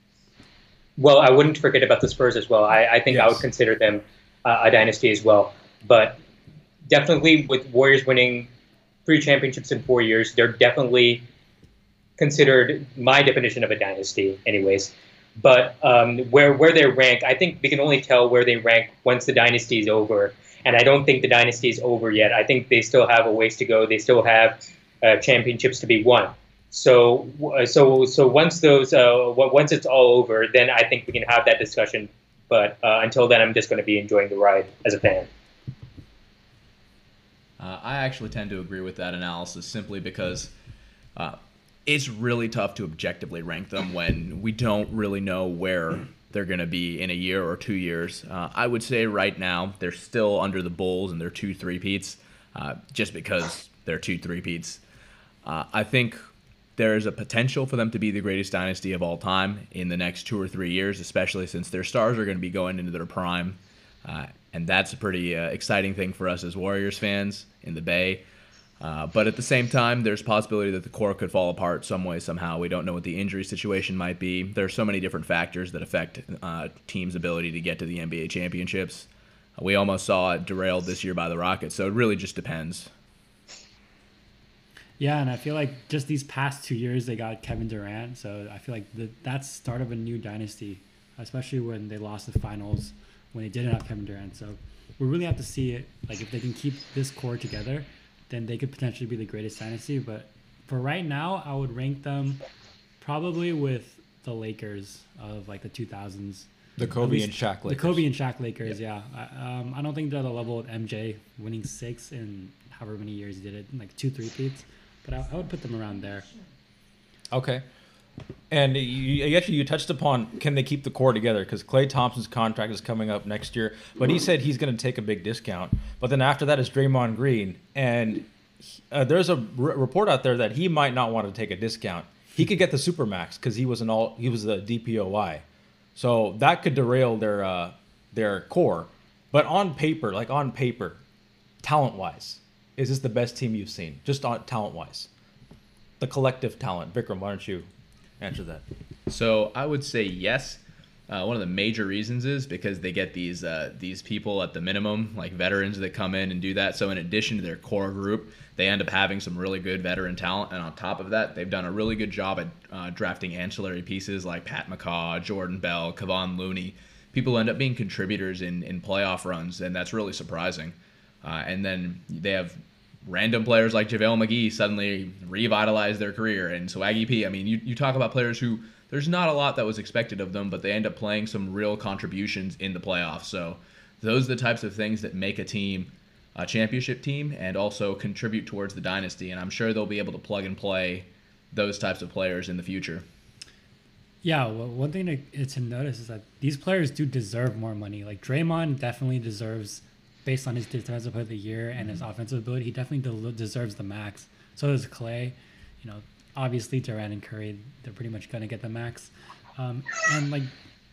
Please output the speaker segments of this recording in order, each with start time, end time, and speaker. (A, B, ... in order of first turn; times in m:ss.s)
0:01.0-0:06.2 A
0:03.1-0:03.4 B
0:06.9-0:08.5 A
0:09.0-0:11.3 A
0:12.2-0:35.3 A
0:37.6-0:40.5 C
0:41.2-0:54.8 C
0:55.4-0:56.2 C
0:56.8-1:08.2 C
1:08.8-1:22.9 C
1:25.0-1:42.4 D
1:43.0-1:46.5 D
1:46.8-1:48.0 B
1:47.0-1:56.3 D
1:57.3-1:57.6 B
1:58.5-2:15.4 B
2:16.0-2:21.0 B
2:21.6-2:25.1 B
2:26.0-2:27.7 B
2:28.2-2:28.6 B
2:29.1-3:13.0 C
3:14.2-3:30.5 D